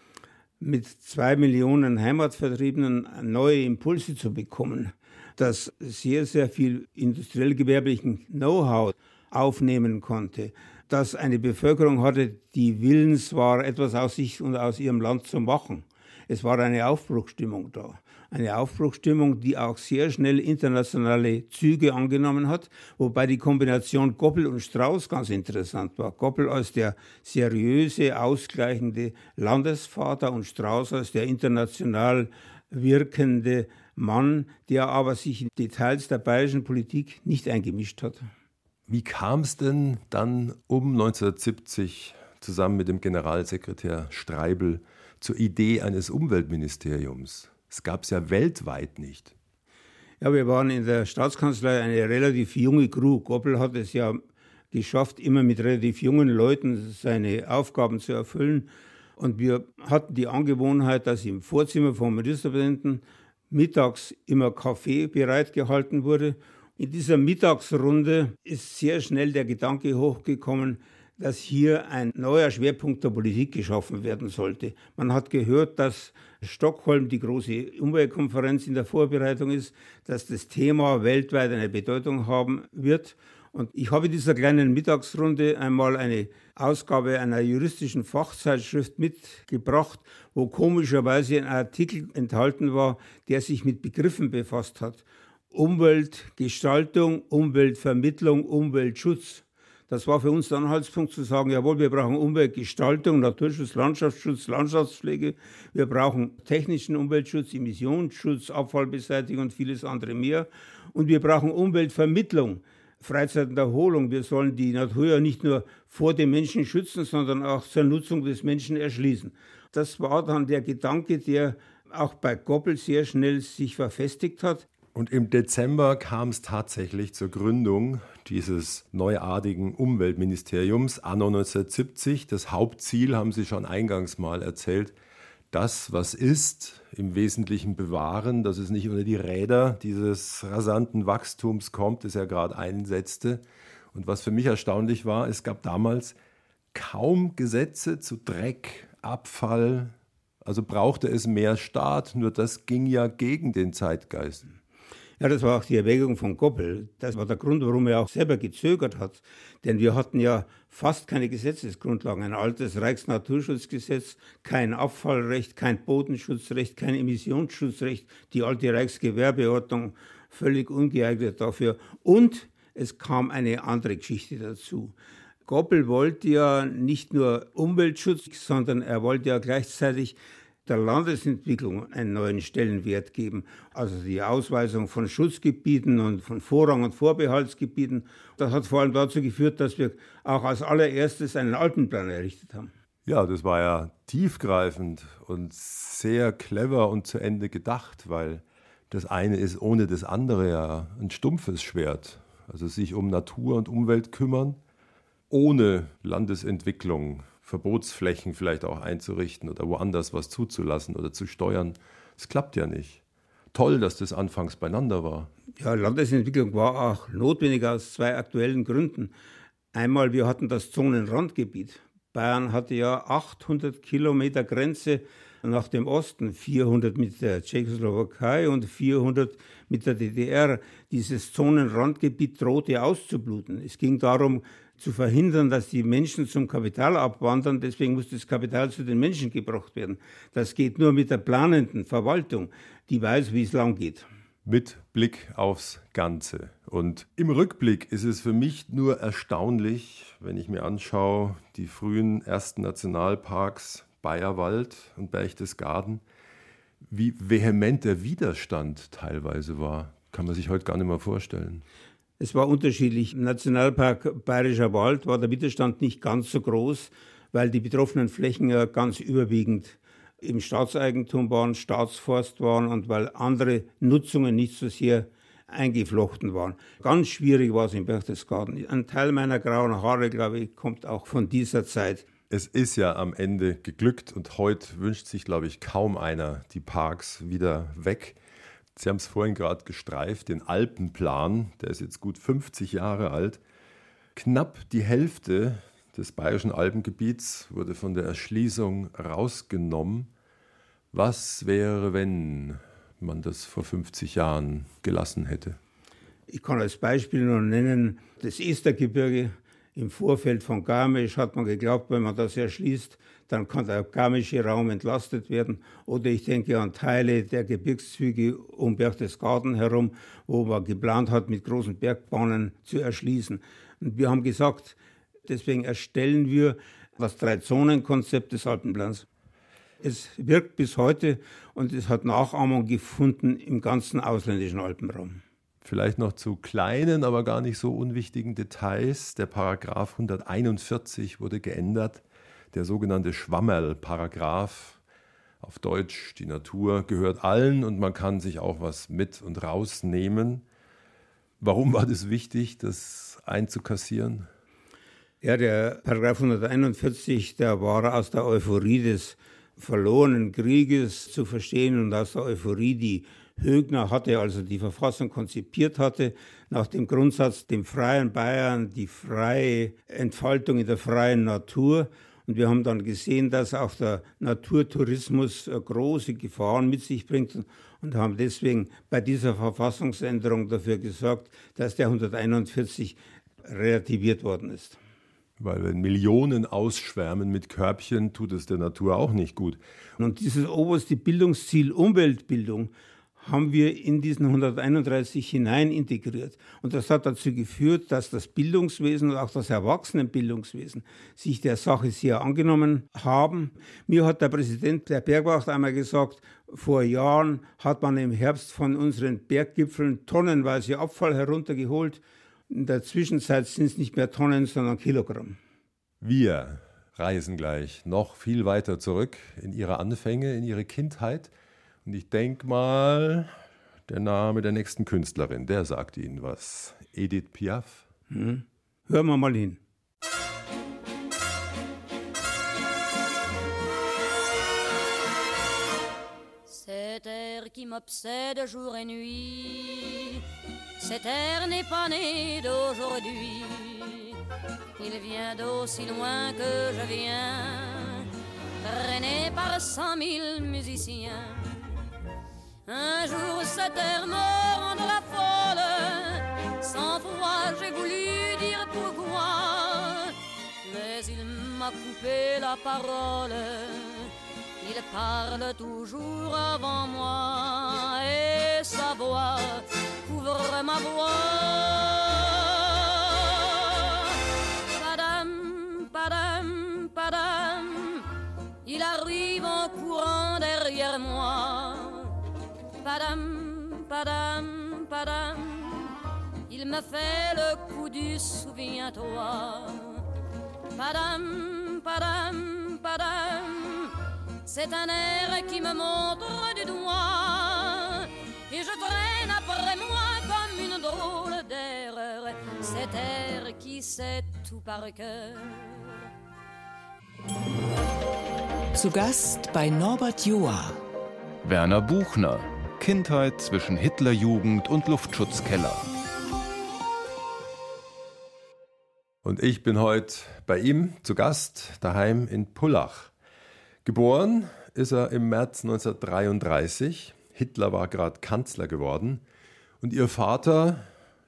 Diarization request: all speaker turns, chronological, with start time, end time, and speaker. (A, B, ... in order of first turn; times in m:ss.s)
0:00.6-0:38.3 A
0:38.9-0:49.3 B
0:50.2-0:54.2 A
0:54.7-2:04.6 A
2:04.9-2:14.9 B
2:15.5-2:26.2 B
2:26.7-2:34.5 B
2:35.2-2:54.9 A
2:55.4-3:12.7 A
3:13.0-3:24.6 B
3:25.3-3:33.0 B
3:33.5-3:35.3 B
3:35.6-3:39.1 A
3:39.7-4:04.0 A
4:04.4-4:16.0 B
4:16.9-4:21.6 B
4:22.2-4:42.0 A
4:42.3-4:48.2 B
4:48.7-4:53.4 B
4:54.1-5:00.1 B
5:00.9-5:05.6 B
5:06.3-5:29.0 A
5:29.8-5:35.2 A
5:35.6-5:44.8 B
5:45.4-5:50.4 B
5:51.4-5:54.3 B
5:55.2-6:24.8 A
6:25.4-6:29.6 B
6:30.0-6:55.4 A
6:56.0-7:01.3 B
7:01.8-7:03.3 B
7:03.9-7:07.8 B
7:08.1-7:09.6 A
7:16.4-7:20.2 C
7:20.8-7:24.2 C
7:24.8-7:28.1 C
7:28.6-7:31.6 C
7:32.6-7:58.1 C
7:58.6-8:02.1 C
8:02.8-8:05.9 C
8:06.5-8:10.0 C
8:10.7-8:26.0 C
8:28.7-8:30.8 D
8:31.4-8:35.9 E
8:39.2-8:43.1 B
8:43.8-8:49.2 B
8:49.8-8:50.9 B